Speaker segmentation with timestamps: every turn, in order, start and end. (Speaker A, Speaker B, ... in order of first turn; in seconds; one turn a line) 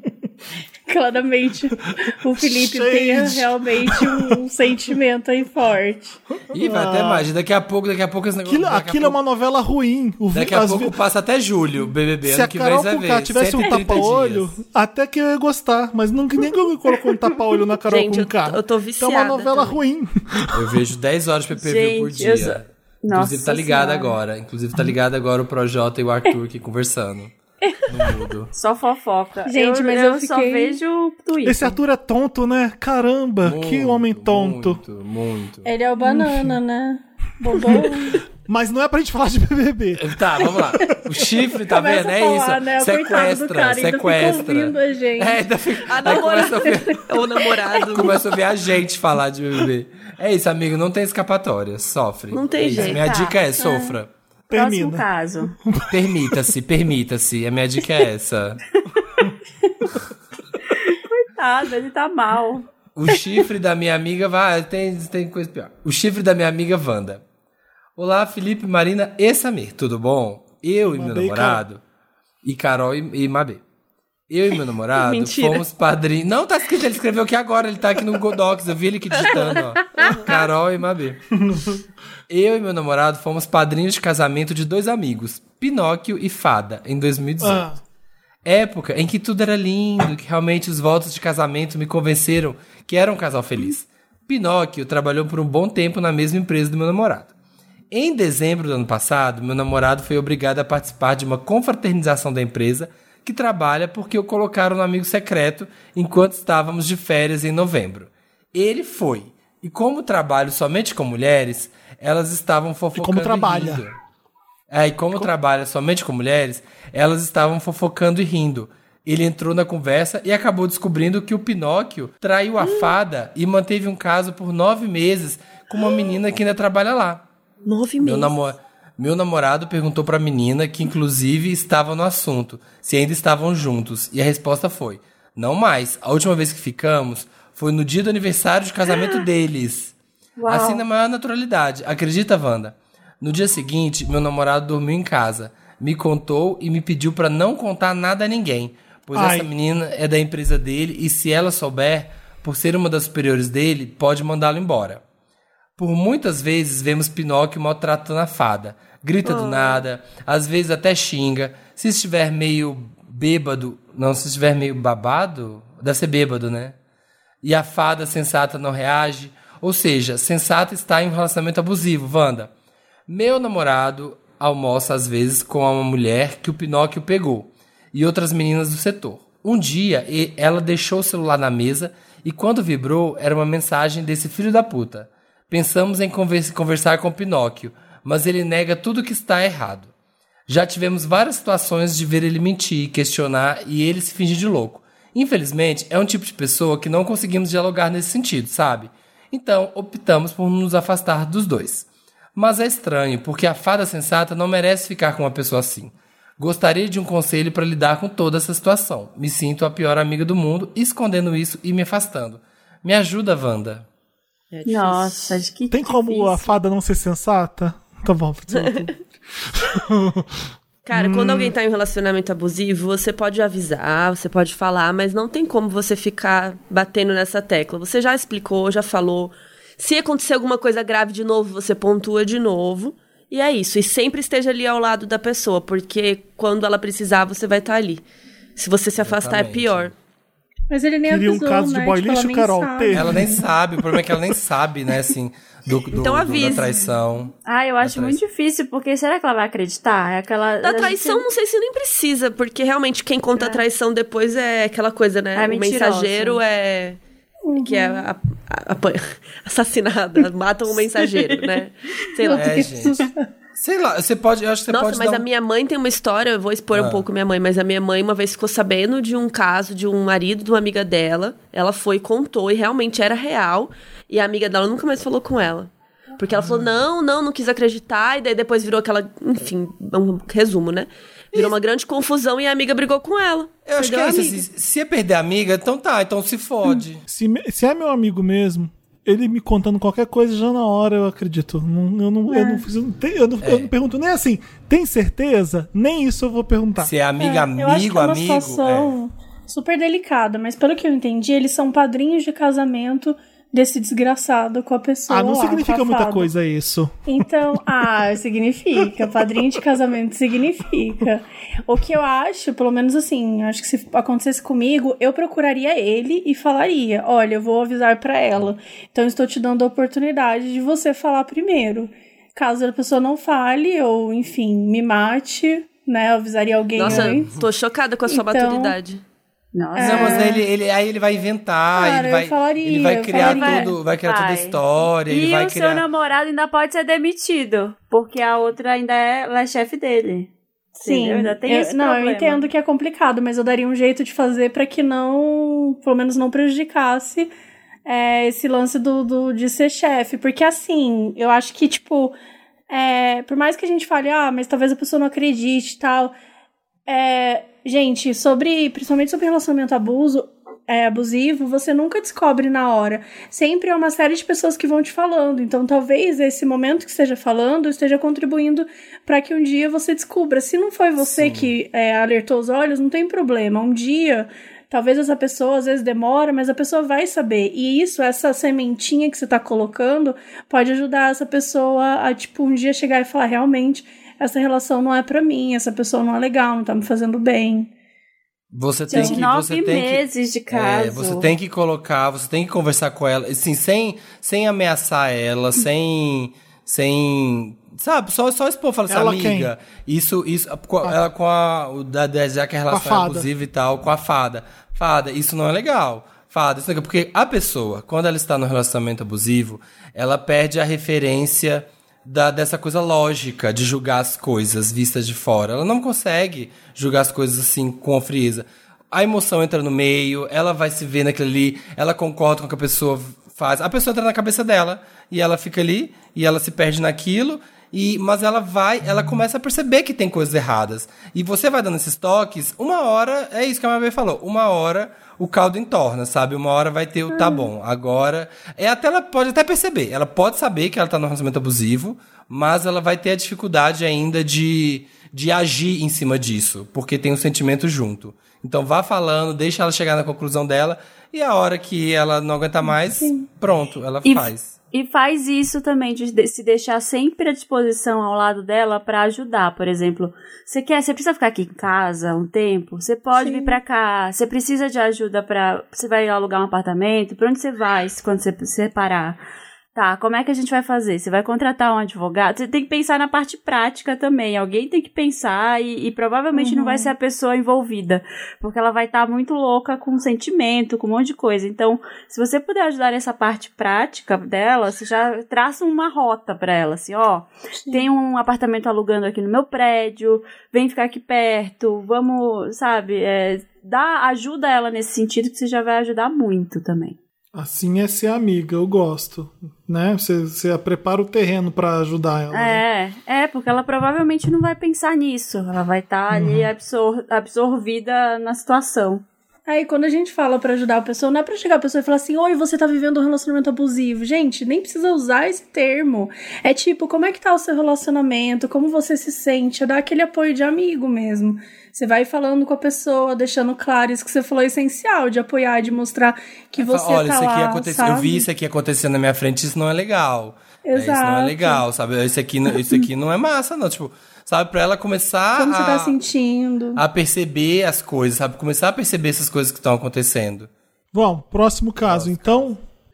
Speaker A: 0.9-6.2
Speaker B: 2.4-4.4
Speaker B: 6.5-7.2
Speaker C: 6.5-9.2
Speaker B: 8.5-10.9
Speaker C: 10.3-14.6
Speaker B: 12.2-20.8
Speaker D: 17.9-19.6
Speaker C: 20.5-27.3
Speaker E: 21.6-24.2
Speaker C: 27.9-28.5
Speaker E: 28.5-31.8
Speaker A: 29.4-30.8
Speaker B: 31.4-34.8
Speaker C: 33.4-35.7
Speaker A: 35.6-38.2
Speaker B: 36.0-36.5
Speaker B: 37.6-41.2
Speaker C: 40.0-47.1
Speaker A: 41.7-45.4
Speaker D: 45.9-48.2
Speaker A: 46.1-46.9
Speaker C: 47.9-54.1
Speaker D: 52.3-53.0
Speaker E: 52.7-53.4
Speaker A: 53.6-53.9
Speaker B: 54.5-55.0
Speaker E: 54.5-55.5
Speaker B: 55.7-56.4
Speaker C: 55.9-58.6
Speaker E: 60.7-62.7
Speaker C: 62.9-67.2
Speaker C: 68.0-71.8
Speaker B: 70.9-71.6
Speaker C: 72.4-73.6
Speaker C: 74.3-81.2
Speaker D: 74.9-75.6
Speaker D: 79.1-80.4
Speaker C: 82.3-87.7
Speaker B: 87.4-87.8
Speaker C: 88.4-97.3
Speaker C: 97.9-113.9
Speaker B: 112.9-113.8
Speaker C: 114.7-127.2
Speaker D: 122.6-122.9
Speaker D: 127.6-128.3
Speaker C: 128.0-139.9
Speaker E: 140.4-140.8
Speaker C: 140.4-155.0
Speaker B: 149.1-149.5
Speaker C: 155.8-166.8
Speaker D: 159.2-159.8
Speaker C: 167.4-172.5
Speaker C: 173.1-189.9
Speaker C: 190.5-213.8
Speaker D: 214.5-215.4
Speaker E: 214.7-216.5
Speaker B: 215.7-220.4
Speaker D: 218.5-218.8
Speaker D: 220.8-238.0
Speaker B: 220.9-221.5
Speaker D: 238.6-239.9
Speaker C: 239.0-239.9
Speaker A: 240.7-243.4
Speaker B: 241.1-243.4
Speaker C: 242.9-248.2
Speaker D: 245.9-246.8
Speaker E: 246.3-246.9
Speaker E: 247.4-251.2
Speaker D: 250.6-257.0
Speaker E: 253.4-253.6
Speaker E: 255.3-256.4
Speaker A: 257.5-258.1
Speaker D: 257.6-262.6
Speaker E: 261.0-261.6
Speaker A: 262.2-263.3
Speaker C: 262.3-263.0
Speaker C: 263.6-265.2
Speaker D: 264.7-284.4
Speaker C: 266.7-267.0
Speaker C: 283.6-287.0
Speaker B: 287.1-296.9
Speaker A: 292.3-292.6
Speaker C: 293.4-293.7
Speaker C: 296.8-298.9
Speaker A: 297.2-306.3
Speaker B: 305.1-307.6
Speaker A: 307.1-327.3
Speaker D: 326.8-329.0
Speaker C: 326.9-327.5
Speaker A: 328.1-328.7
Speaker E: 329.5-330.4
Speaker A: 329.8-330.4
Speaker C: 329.8-335.8
Speaker A: 331.7-333.7
Speaker E: 333.1-342.5
Speaker A: 340.8-347.3
Speaker A: 347.9-352.1
Speaker A: 352.7-356.1
Speaker A: 356.9-387.7
Speaker C: 371.0-371.5
Speaker C: 388.5-454.6
Speaker E: 388.9-391.3
Speaker A: 388.9-389.2
Speaker B: 398.9-399.5
Speaker B: 402.7-403.3
Speaker A: 437.1-437.5
Speaker A: 452.9-453.2
Speaker E: 454.0-469.2
Speaker A: 463.1-463.6
Speaker E: 469.7-496.9
Speaker A: 476.3-476.9
Speaker B: 497.3-502.6
Speaker E: 502.3-509.0
Speaker B: 506.1-506.5
Speaker A: 509.5-528.2
Speaker C: 526.6-536.0
Speaker A: 530.6-531.6
Speaker A: 535.3-536.8
Speaker C: 536.8-540.5
Speaker B: 540.9-542.6
Speaker C: 541.9-542.5